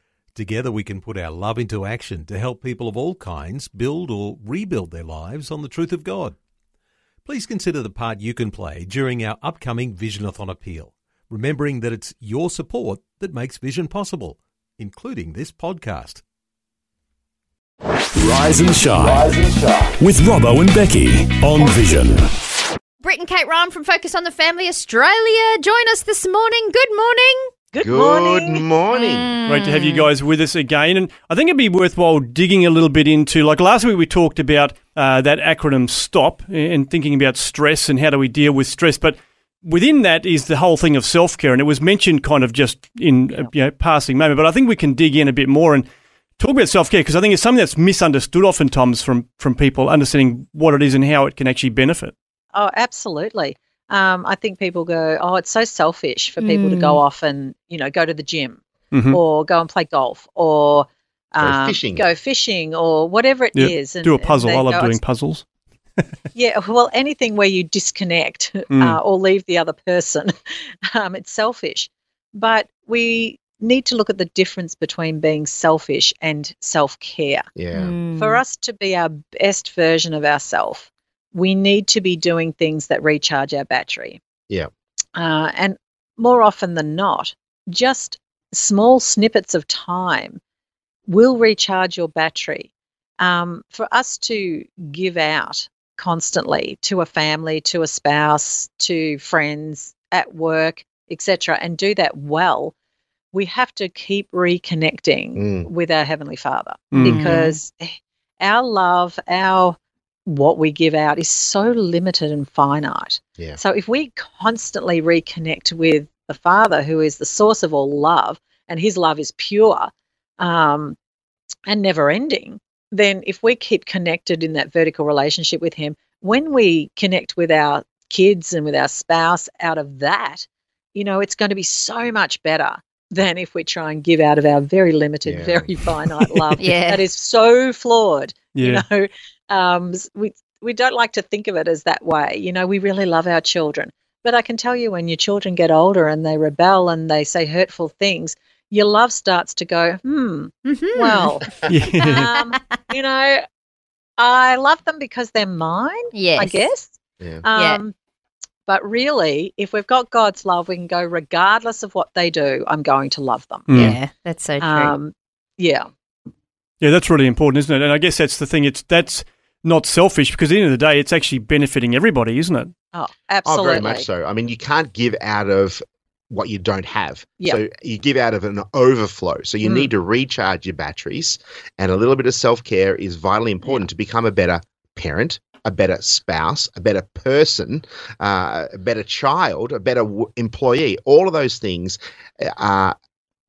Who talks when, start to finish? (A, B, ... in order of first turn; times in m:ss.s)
0:00.3-0:06.4 A
0:07.2-0:16.2 A
0:18.2-0:19.3 B
0:20.0-0:22.2 B
0:23.0-0:27.5 C
0:27.7-0:28.6 D
0:27.8-0:29.3 E
0:28.9-0:30.1 C
0:29.5-0:45.9 F
0:46.4-0:52.1 F
0:52.5-1:05.0 D
0:56.4-0:57.0 C
0:58.9-0:59.2 F
1:01.4-1:02.0 E
1:03.5-1:05.4 F
1:06.3-1:10.3 D
1:08.7-1:09.0 F
1:10.9-1:17.5 D
1:17.6-1:17.9 E
1:17.7-1:18.4 C
1:18.1-1:24.2 D
1:25.1-1:30.4 D
1:31.1-1:42.7 D
1:43.3-2:01.0 D
1:45.4-1:45.7 E
1:46.9-1:47.3 F
1:47.0-1:47.6 C
2:01.7-2:33.4 D
2:15.2-2:15.7 E
2:16.6-2:17.0 C
2:18.5-2:18.8 F
2:30.6-2:31.4 C
2:31.6-2:32.3 F
2:32.1-2:32.6 C
2:34.2-2:37.9 D
2:36.1-2:36.7 C
2:38.7-2:43.7 D
2:43.7-2:44.0 F
2:43.7-2:44.0 E
2:43.7-2:44.9 C
2:44.6-2:45.9 D
2:46.8-2:52.7 F
2:52.9-2:54.1 D
2:53.4-3:12.9 E
2:59.6-2:59.9 D